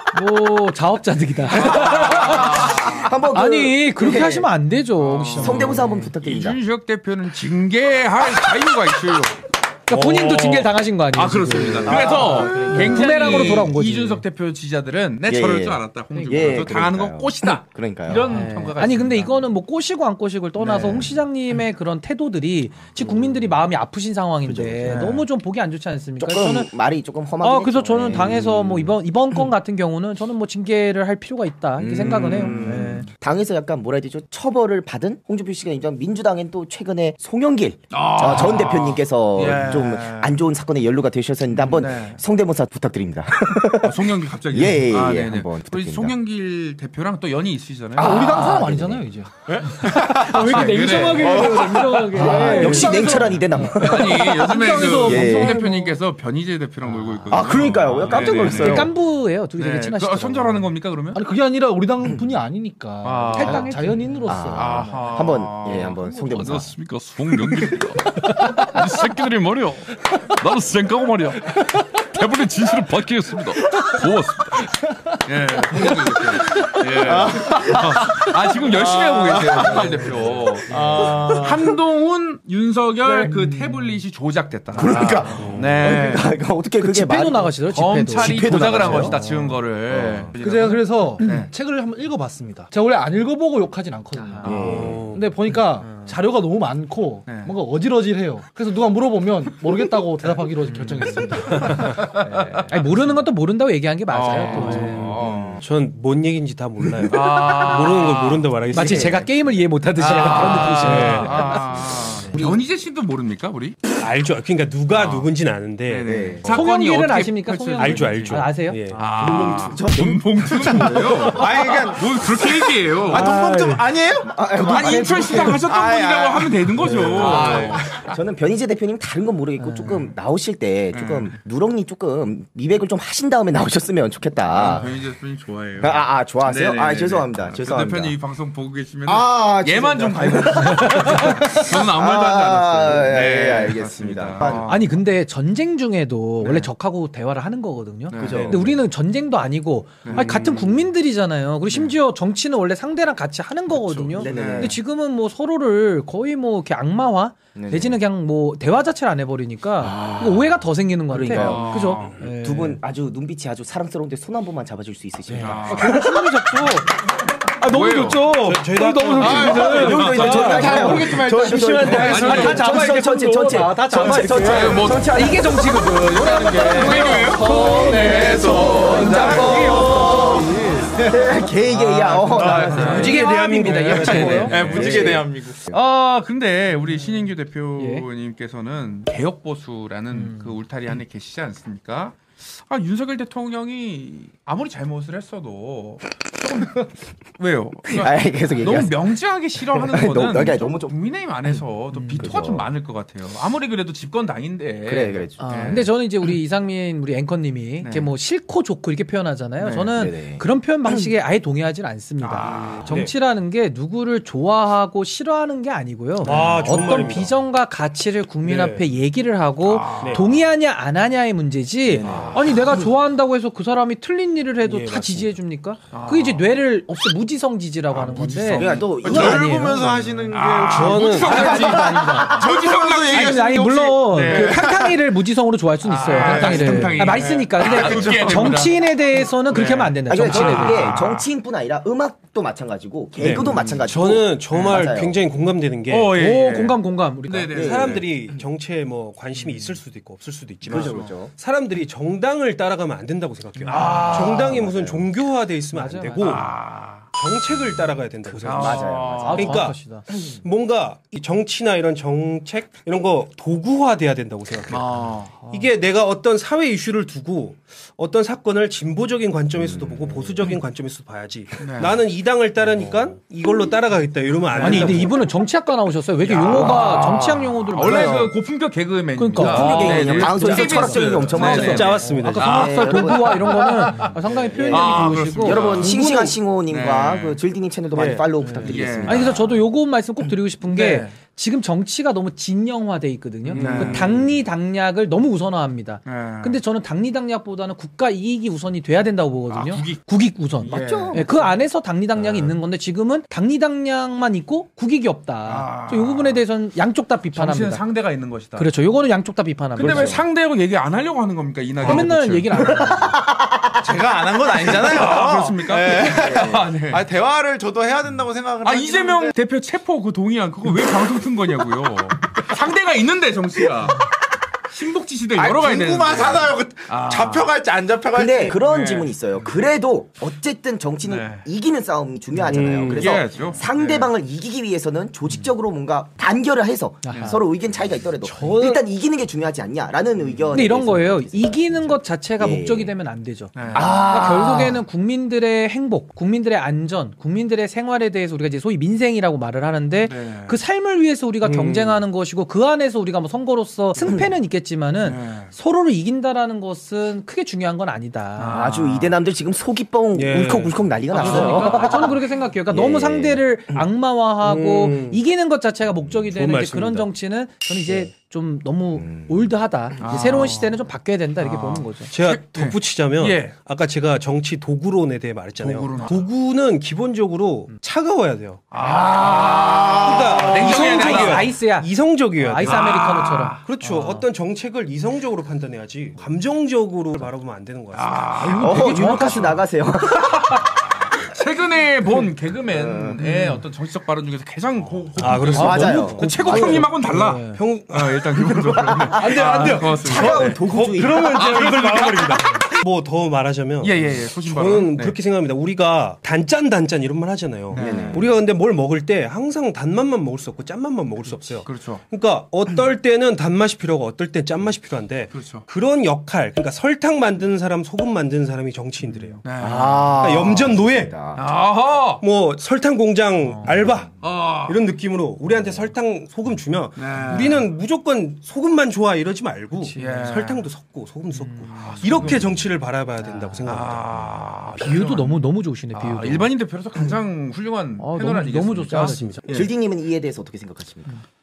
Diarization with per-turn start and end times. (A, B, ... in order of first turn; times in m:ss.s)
0:00.1-0:06.1 A
0:01.5-0:04.5 B
0:01.7-0:03.0 C
0:05.0-0:19.5 C
0:05.3-0:06.6 B
0:09.9-0:14.2 A
0:11.8-0:13.6 B
0:15.2-0:18.4 B
0:16.1-0:16.7 A
0:18.2-0:26.7 A
0:20.6-0:21.2 B
0:23.0-0:23.6 B
0:24.4-0:25.2 B
0:24.9-0:25.2 C
0:26.2-0:28.9 B
0:27.4-0:33.0 A
0:31.8-0:46.1 B
0:32.0-0:33.1 C
0:37.9-0:40.4 C
0:41.5-0:42.2 C
0:43.8-0:48.6 C
0:48.0-0:49.3 D
0:48.0-0:49.0 B
0:49.5-0:52.2 E
0:49.8-0:58.9 C
0:49.8-0:53.8 A
0:52.1-0:55.6 B
0:52.2-0:56.0 D
0:57.3-0:58.9 B
0:58.4-1:00.7 A
0:59.6-1:01.2 C
1:01.1-1:05.4 D
1:02.0-1:02.3 B
1:03.0-1:03.7 C
1:03.3-1:04.1 A
1:04.3-1:06.7 B
1:04.5-1:26.3 C
1:05.9-1:06.6 D
1:15.7-1:16.6 B
1:17.0-1:21.7 E
1:17.4-1:18.0 B
1:19.8-1:20.5 B
1:20.7-1:21.2 D
1:23.1-1:24.0 D
1:24.7-1:27.6 B
1:25.4-1:25.7 F
1:26.8-1:29.2 A
1:27.7-1:31.5 C
1:28.1-1:30.3 B
1:30.4-1:42.0 D
1:31.2-1:31.4 A
1:34.2-1:35.2 B
1:34.4-1:35.1 C
1:34.6-1:35.2 F
1:35.8-1:36.1 C
1:37.2-1:37.5 C
1:40.7-1:42.8 C
1:41.6-1:41.9 A
1:42.7-1:45.1 A
1:44.1-1:45.6 C
1:44.3-1:45.6 E
1:44.8-1:45.6 B
1:45.6-1:49.3 F
1:47.1-1:48.5 C
1:48.7-1:49.3 B
1:48.7-1:51.4 A
1:50.0-1:53.8 C
1:50.0-1:52.6 B
1:50.6-1:51.3 F
1:54.0-1:56.6 F
1:54.9-1:55.3 C
1:55.8-2:03.4 C
1:56.1-1:56.5 B
1:56.5-1:59.5 A
1:57.8-1:59.0 F
1:59.1-2:01.5 B
2:01.3-2:04.4 E
2:03.1-2:03.8 A
2:04.2-2:05.6 B
2:04.6-2:08.1 C
2:04.8-2:05.6 A
2:05.4-2:08.1 E
2:06.8-2:14.9 B
2:07.1-2:07.6 A
2:09.6-2:10.1 A
2:10.9-2:11.3 C
2:14.5-2:25.0 C
2:15.8-2:18.1 B
2:19.0-2:24.8 B
2:24.6-2:42.8 A
2:28.1-2:28.6 C
2:28.2-2:28.8 B
2:30.0-2:30.4 C
2:30.1-2:30.6 B
2:34.0-2:34.8 C
2:34.1-2:34.8 B
2:37.5-2:38.0 B
2:39.8-2:40.6 B
2:41.1-2:46.0 B
2:41.3-2:42.1 C
2:45.3-2:47.0 A
2:45.3-2:46.0 C
2:47.6-3:00.8 A
2:47.6-2:48.3 C
2:47.9-2:52.7 F
2:49.2-2:52.2 E
2:49.2-2:52.7 C
2:49.6-2:55.7 B
2:53.9-2:54.8 F
2:54.3-3:01.3 E
2:54.4-2:55.1 C
2:56.2-2:59.9 C
2:57.8-2:59.9 B
3:00.9-3:03.2 B
3:02.2-3:03.2 E
3:02.3-3:25.9 C
3:02.5-3:04.8 F
3:02.6-3:05.2 A
3:03.9-3:05.6 E
3:04.7-3:05.8 B
3:07.0-3:08.0 A
3:10.1-3:10.6 A
3:17.9-3:19.1 B
3:18.6-3:18.9 A
3:19.7-3:20.9 B
3:21.9-3:22.4 A
3:22.2-3:22.7 B
3:24.8-3:25.8 B
3:25.4-3:49.9 A
3:27.8-3:28.1 C
3:29.6-3:29.9 C
3:29.9-3:31.1 B
3:32.2-3:32.8 C
3:32.4-3:32.8 B
3:32.7-3:33.1 F
3:36.2-3:37.3 F
3:36.2-3:37.0 C
3:38.4-3:38.9 F
3:39.6-3:40.4 C
3:41.8-3:42.9 B
3:42.0-3:42.6 C
3:44.6-3:45.4 F
3:45.9-3:46.4 C
3:47.9-3:49.0 C
3:48.5-3:49.5 B
3:49.0-3:55.0 E
3:49.9-3:51.9 F
3:50.3-3:54.7 C
3:51.2-3:52.5 B
3:51.8-3:52.2 A
3:53.1-4:01.0 A
3:55.8-3:58.8 C
3:56.1-3:58.7 E
3:59.5-4:01.3 C
4:00.1-4:05.2 B
4:03.2-4:06.2 F
4:03.4-4:03.9 C
4:04.5-4:04.8 C
4:05.9-4:08.1 C
4:06.1-4:07.6 A
4:07.5-4:08.1 B
4:07.5-4:16.5 F
4:10.6-4:11.1 C
4:10.6-4:11.3 B
4:13.6-4:14.2 A
4:13.6-4:14.6 C
4:14.1-4:15.0 B
4:15.7-4:16.4 A
4:16.2-4:17.1 C
4:17.1-4:24.9 F
4:18.4-4:19.6 B
4:18.4-4:19.6 C
4:19.2-4:20.0 A
4:24.7-4:25.3 C
4:25.4-4:25.7 A
4:25.4-4:35.2 F
4:29.6-4:30.3 B
4:31.6-4:32.0 C
4:32.7-4:33.1 C
4:34.5-4:35.0 C
4:34.6-4:38.3 A
4:36.2-4:44.1 C
4:39.2-4:45.9 A
4:39.4-4:49.6 B
4:41.3-4:42.7 F
4:44.7-4:46.0 C
4:45.6-4:46.3 F
4:46.7-4:47.4 C
4:47.9-4:48.3 E
4:48.4-4:49.4 C
4:49.0-5:07.8 A
4:50.6-4:51.1 C
4:53.5-4:54.4 B
4:53.5-4:54.2 C
4:56.0-4:56.6 C
4:59.5-5:00.0 C
5:00.6-5:01.3 C
5:00.6-5:01.5 B
5:02.2-5:02.6 C
5:05.4-5:06.4 C
5:07.3-5:08.7 C
5:08.5-5:10.2 A
5:09.8-5:13.0 C
5:09.8-5:10.2 B
5:11.8-5:13.2 A
5:13.1-5:13.7 B
5:13.8-5:19.3 E
5:14.6-5:17.0 C
5:16.2-5:16.7 B
5:18.6-5:24.1 C
5:24.7-5:27.5 C
5:25.3-5:29.1 E
5:28.1-5:42.9 B
5:28.6-5:29.4 C
5:31.0-5:31.4 C
5:32.5-5:33.3 F
5:32.9-5:34.1 C
5:37.0-5:37.4 A
5:38.2-5:38.8 D
5:40.5-5:58.6 A
5:43.5-5:44.0 C
5:43.7-5:44.8 B
5:50.0-5:50.6 C
5:51.4-5:52.0 F
5:54.0-5:54.3 B
5:55.0-5:55.5 C
5:58.4-5:59.2 C
5:58.5-6:03.8 B
6:00.1-6:01.6 F
6:01.1-6:02.0 C
6:01.1-6:12.1 A
6:04.4-6:05.2 F
6:06.3-6:07.1 F
6:07.8-6:08.1 B
6:09.0-6:10.0 B
6:10.0-6:10.8 C
6:11.4-6:13.5 C
6:12.1-6:22.9 F
6:15.6-6:16.2 C
6:18.7-6:21.5 C
6:20.6-6:24.2 A
6:22.6-6:23.6 C
6:23.6-6:28.4 F
6:27.9-6:29.5 C
6:28.4-6:29.6 A
6:28.4-6:30.9 B
6:30.2-6:42.5 C
6:32.7-6:33.2 B
6:33.2-6:33.6 A
6:35.1-6:59.4 F
6:35.6-6:36.8 B
6:35.6-6:37.6 A
6:38.4-6:41.7 B
6:43.8-6:45.1 C
6:47.7-6:48.3 C
6:47.7-6:48.3 B
6:51.6-6:52.0 C
6:55.3-6:55.6 C
6:59.4-7:00.4 C
6:59.6-7:01.4 B
7:00.2-7:01.1 F
7:01.4-7:02.2 C
7:02.2-7:14.3 F
7:04.2-7:04.8 C
7:07.0-7:07.6 C
7:09.8-7:10.4 A
7:10.0-7:10.6 C
7:11.4-7:11.9 A
7:11.7-7:12.6 C
7:13.2-7:13.6 A
7:13.6-7:19.7 C
7:14.8-7:16.5 A
7:18.0-7:19.4 A
7:18.9-7:19.4 F
7:19.5-7:21.2 B